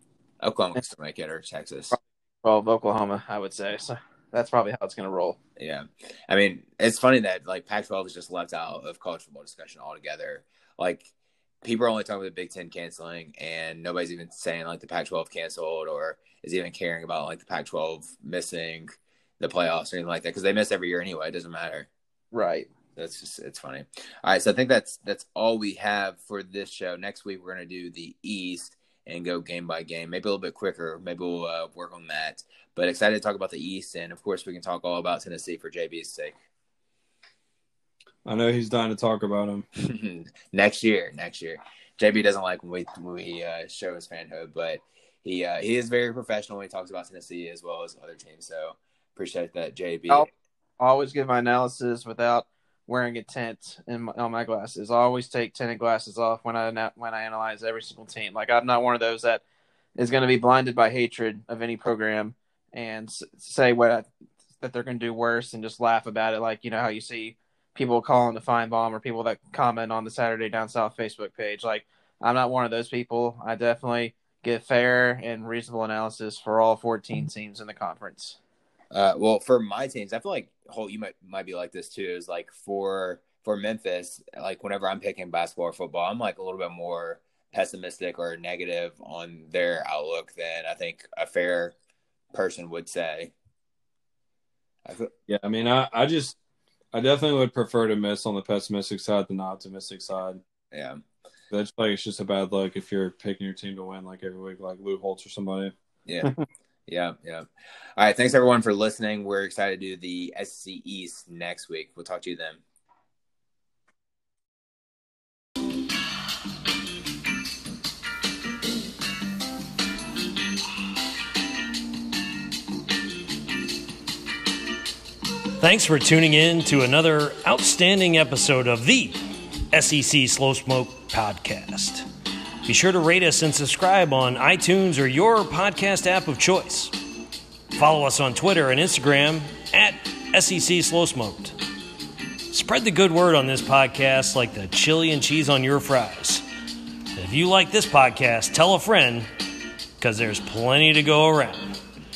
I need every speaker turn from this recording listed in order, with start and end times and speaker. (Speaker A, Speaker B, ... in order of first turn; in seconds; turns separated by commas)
Speaker A: 0.4-1.9, Speaker B: 1.9-5.4, Speaker A: 5.6-11.1, Speaker A: 11.6-21.9, Speaker B: 22.3-22.7, Speaker A: 22.9-36.4, Speaker C: 38.2-39.7, Speaker A: 39.8-50.3, Speaker B: 50.8-59.4, Speaker B: 60.0-64.1, Speaker B: 64.6-78.4, Speaker A: 78.9-91.7, Speaker A: 92.3-93.3, Speaker A: 94.8-95.1, Speaker C: 95.3-96.4, Speaker C: 96.9-100.4, Speaker A: 100.7-101.0, Speaker C: 101.5-105.7, Speaker A: 106.0-106.3, Speaker A: 106.9-112.6, Speaker D: 125.6-132.1, Speaker D: 132.6-136.9, Speaker D: 137.7-141.6, Speaker D: 142.5-146.4, Speaker D: 147.2-149.3, Speaker D: 150.0-151.8